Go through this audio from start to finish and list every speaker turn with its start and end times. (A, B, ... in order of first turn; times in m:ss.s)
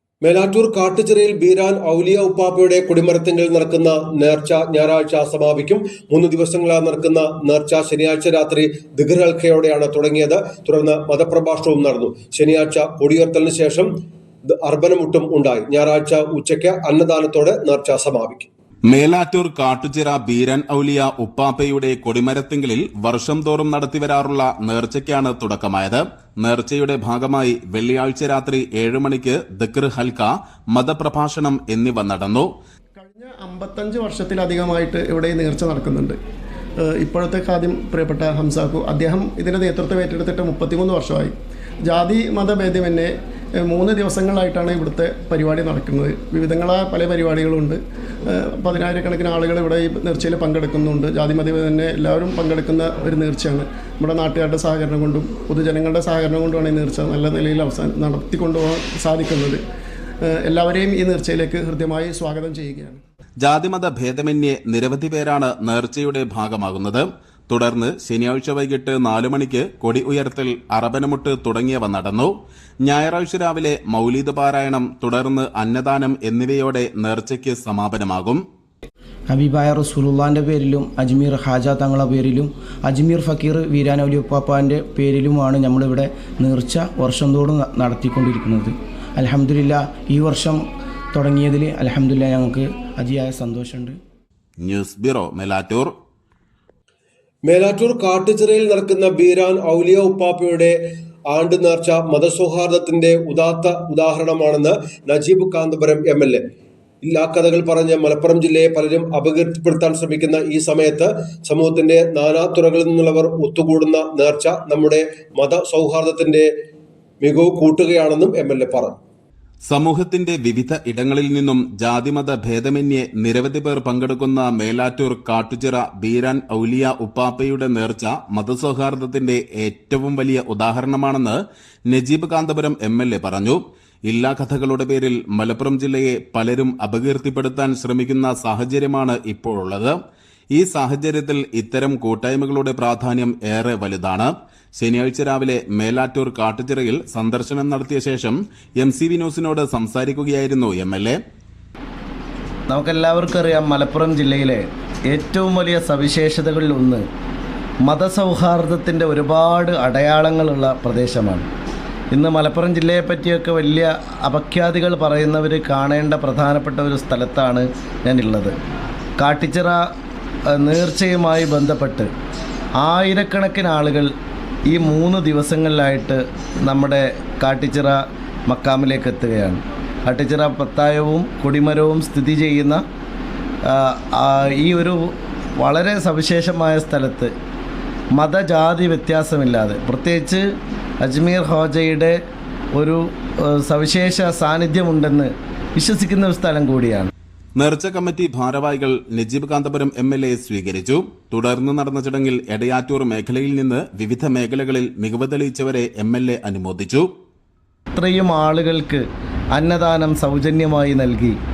0:00.2-0:13.9 A
0:14.5-0:18.5 A
0:18.9-0:32.5 B
0:33.0-0:36.2 C
0:36.8-0:59.6 C
1:00.2-1:03.0 C
1:03.4-1:12.3 B
1:12.8-1:18.4 B
1:19.3-1:30.6 D
1:31.1-1:34.0 D
1:34.6-1:35.9 B
1:37.4-1:40.7 A
1:41.3-1:46.4 A
1:47.0-1:56.5 A
1:57.2-1:59.0 A
1:59.6-2:19.9 B
2:20.5-2:31.2 B
2:32.7-2:37.0 E
2:37.8-2:41.5 E
2:42.1-2:48.5 E
2:49.2-2:49.8 E
2:50.5-2:52.1 E
2:52.8-2:54.1 E
2:54.7-3:02.8 E
3:03.7-3:07.3 E
3:08.2-3:10.4 E
3:11.0-3:12.2 E
3:12.7-3:17.1 E
3:17.6-3:27.0 B
3:27.9-3:29.0 E
3:29.5-3:31.4 E